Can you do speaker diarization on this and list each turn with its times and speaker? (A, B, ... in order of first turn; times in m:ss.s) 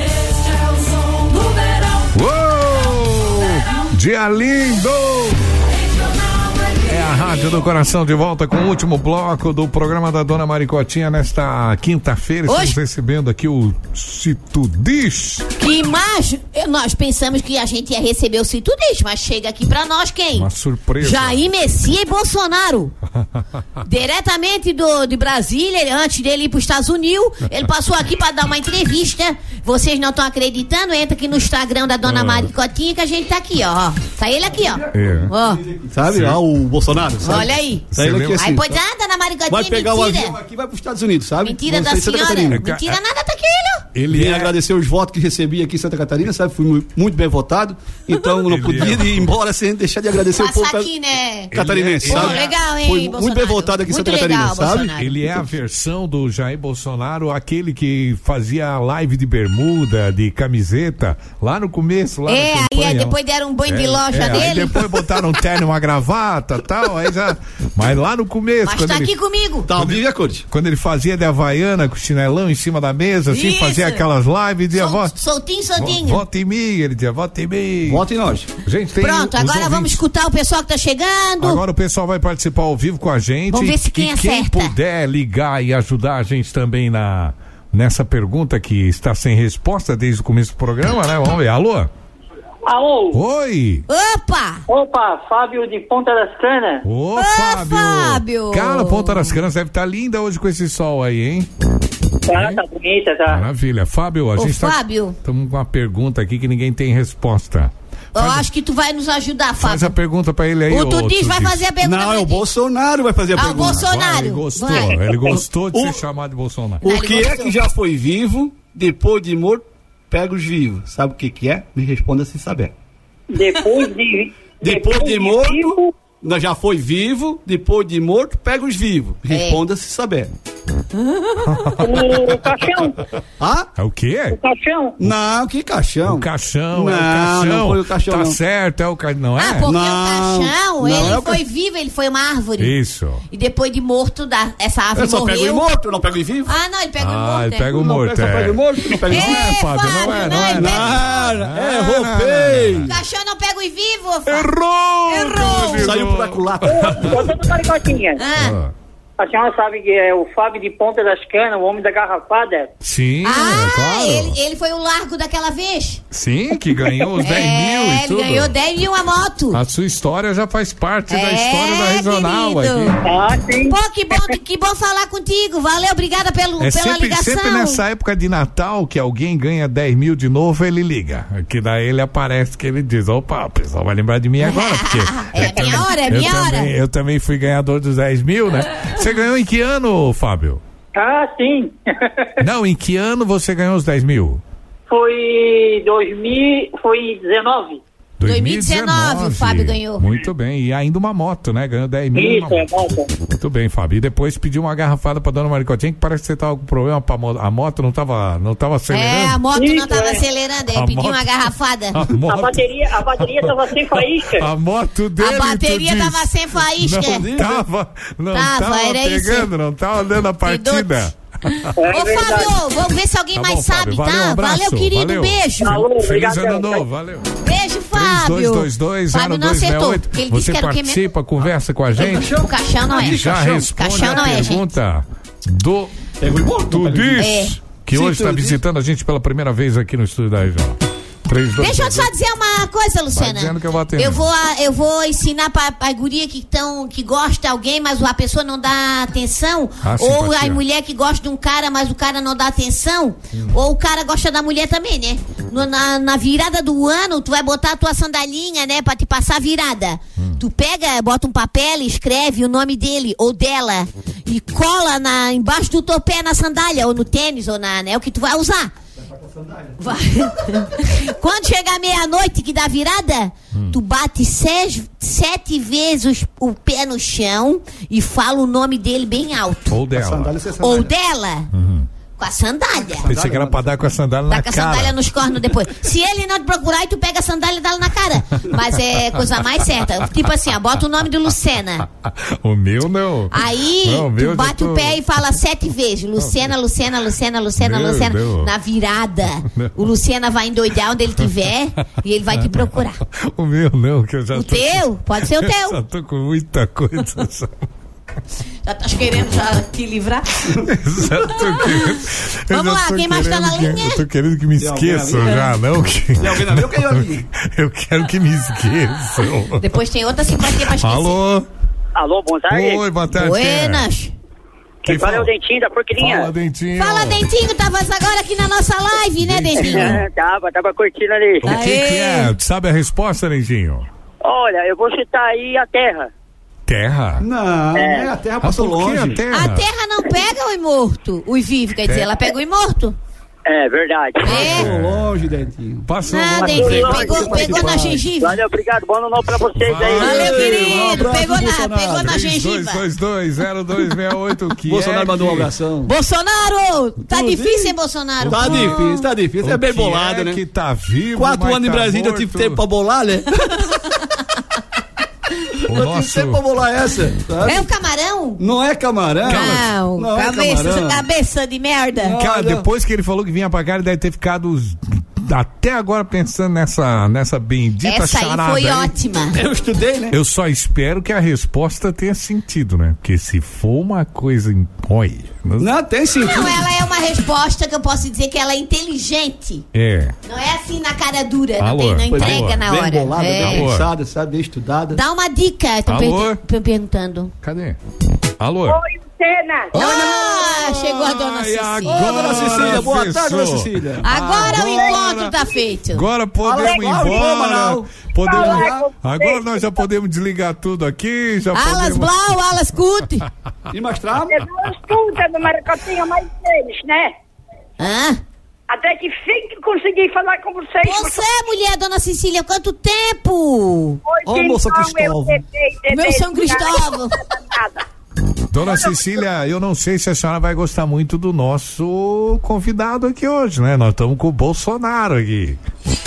0:02.1-0:05.4 A
0:06.8-0:15.5 A
0:12.5-0:12.8 B
0:15.6-0:20.5 B
0:20.3-0:21.4 A
0:21.0-0:22.9 B
0:23.8-0:35.6 B
0:32.0-0:32.5 A
0:34.6-0:38.7 C
0:34.9-0:35.3 A
0:36.0-0:36.4 A
0:37.2-0:40.3 B
0:37.9-0:38.5 A
0:39.5-0:42.6 C
0:41.4-0:43.8 B
0:42.5-0:43.0 A
0:43.9-0:44.5 A
0:44.1-0:50.9 C
0:48.4-0:49.3 A
0:50.4-0:55.2 B
0:51.5-0:54.9 C
0:51.5-0:52.5 A
0:54.9-1:09.1 A
1:02.3-1:04.9 B
1:08.6-1:09.7 B
1:09.7-1:10.4 C
1:09.8-1:15.1 A
1:13.3-1:14.0 B
1:14.7-1:16.2 B
1:15.8-1:18.0 A
1:17.8-1:18.5 C
1:18.6-1:20.0 A
1:19.0-1:21.6 B
1:21.4-1:31.9 A
1:23.5-1:24.7 B
1:32.6-1:33.2 D
1:33.1-1:33.8 A
1:33.9-1:34.6 B
1:34.7-1:36.8 D
1:36.8-1:41.5 A
1:37.1-1:39.4 B
1:42.2-1:43.4 D
1:42.3-1:42.6 A
1:43.3-1:48.4 A
1:44.4-1:45.2 B
1:48.1-1:49.9 B
1:49.6-1:51.7 A
1:50.7-1:52.4 B
1:51.8-1:53.9 C
1:53.3-1:55.0 B
1:53.6-1:56.8 A
1:55.3-1:56.0 C
1:56.8-2:02.7 C
1:56.8-1:57.5 B
2:03.3-2:05.9 D
2:04.6-2:10.3 C
2:09.3-2:09.6 B
2:11.4-2:12.0 A
2:11.8-2:13.0 D
2:13.4-2:13.7 C
2:13.8-2:14.4 A
2:14.3-2:15.0 D
2:15.0-2:18.4 C
2:16.0-2:19.7 A
2:19.4-2:22.7 B
2:19.6-2:21.4 C
2:22.6-2:23.2 A
2:23.3-2:25.7 B
2:24.9-2:26.5 C
2:26.4-2:27.7 B
2:27.0-2:32.9 A
2:27.7-2:32.9 C
2:29.1-2:31.3 B
2:32.8-2:34.5 B
2:34.3-2:37.2 A
2:35.1-2:35.9 B
2:35.8-2:37.2 C
2:36.6-2:38.2 D
2:38.2-2:38.6 B
2:38.3-2:38.7 A
2:39.2-2:42.7 D
2:42.8-2:44.4 A
2:43.2-2:46.0 B
2:46.1-2:48.5 A
2:47.2-2:49.6 B
2:49.5-2:53.0 A
2:51.1-2:53.0 B
2:53.0-2:53.8 D
2:53.6-2:57.8 B
2:56.6-3:10.6 A
3:04.4-3:06.7 B
3:10.9-3:12.3 D
3:12.4-3:14.4 A
3:14.9-3:17.8 D
3:18.2-3:22.7 A
3:18.2-3:20.0 B
3:22.1-3:23.1 D
3:23.4-3:29.5 A
3:28.9-3:32.0 B
3:29.5-3:30.2 D
3:30.7-3:31.4 A
3:31.9-3:41.7 A
3:32.2-3:34.4 D
3:35.2-3:37.2 B
3:37.1-3:37.6 C
3:38.3-3:39.5 B
3:40.4-3:41.0 B
3:41.7-3:45.9 B
3:41.8-3:42.6 D
3:43.3-3:47.2 A
3:45.6-3:46.8 D
3:47.4-3:51.1 B
3:47.9-3:52.3 A
3:52.0-3:54.6 C
3:52.0-3:54.6 B
3:52.8-3:55.9 A
3:56.2-3:57.3 C
3:56.7-4:02.1 A
3:57.2-3:57.5 B
3:57.9-3:58.6 C
4:01.6-4:28.7 B
4:03.1-4:04.3 A
4:09.8-4:10.6 A
4:29.0-4:30.3 C
4:29.8-4:39.7 B
4:39.7-4:40.4 A
4:39.9-4:40.9 C
4:40.6-4:41.5 B
4:41.5-4:41.9 A
4:42.2-4:43.1 B
4:42.7-4:43.8 C
4:43.0-4:45.0 A
4:44.3-4:51.9 B
4:52.0-4:55.0 A
4:53.3-5:03.0 B
4:56.2-4:56.5 A
4:57.6-4:58.5 A
5:02.4-5:07.5 A
5:04.3-5:05.8 B
5:08.6-5:10.5 B
5:10.7-5:19.6 A
5:11.3-5:12.0 B
5:12.5-5:14.0 B
5:14.6-5:15.6 C
5:16.2-5:17.3 C
5:19.6-5:21.2 B
5:20.8-5:21.5 A
5:22.0-5:22.8 D
5:22.5-5:23.9 A
5:23.1-5:24.1 B
5:24.8-5:26.3 D
5:24.8-5:25.3 A
5:25.9-5:27.3 A
5:26.8-5:30.0 B
5:29.2-5:30.0 A
5:29.6-5:31.5 D
5:31.4-5:33.8 A
5:31.4-5:32.3 B
5:34.2-5:36.1 D
5:36.7-5:37.2 A
5:37.2-5:39.2 C
5:37.7-5:38.1 D
5:38.4-5:39.6 A
5:39.3-5:43.0 B
5:41.8-5:42.1 A
5:43.4-5:44.4 D
5:44.2-5:45.3 A
5:44.2-5:44.7 B
5:44.2-5:48.0 C
5:45.9-5:46.8 A
5:46.0-5:48.4 B
5:46.4-5:50.4 D
5:49.6-5:51.2 A
5:49.8-5:52.2 C
5:49.9-5:52.8 B
5:52.0-5:55.5 A
5:54.6-5:55.9 C
5:55.8-5:59.0 B
5:57.1-5:57.8 C
5:58.2-5:58.9 A
5:58.3-6:00.4 C
5:59.4-6:02.6 A
6:01.1-6:03.6 C
6:05.7-6:07.7 C
6:05.7-6:06.4 A
6:07.4-6:08.4 B
6:08.4-6:11.0 C
6:09.2-6:09.8 A
6:09.2-6:12.2 B
6:12.0-6:12.7 C
6:12.2-6:18.9 A
6:17.8-6:19.4 B
6:19.3-6:20.2 C
6:20.1-6:25.7 A
6:25.6-6:26.7 C
6:26.2-6:29.6 B
6:29.7-6:30.1 A
6:30.2-6:33.6 B
6:31.6-6:32.6 A
6:32.1-6:35.0 C
6:33.4-6:33.9 A
6:34.9-6:37.3 B
6:35.9-6:36.4 A
6:37.4-6:37.8 A
6:38.4-6:38.8 A
6:38.7-6:39.7 E
6:39.7-6:42.3 B
6:39.7-6:45.4 A
6:39.8-6:40.3 C
6:41.9-6:44.8 C
6:44.0-6:46.0 B
6:45.9-6:52.1 A
6:46.4-6:48.9 C
6:48.2-6:49.6 E
6:51.5-6:53.2 B
6:53.7-6:54.4 C
6:54.3-6:57.1 E
6:57.8-6:58.2 B
6:58.7-7:01.3 E
7:00.8-7:04.0 B
7:04.1-7:07.8 E
7:04.2-7:05.4 C
7:05.9-7:07.2 B
7:08.5-7:15.6 A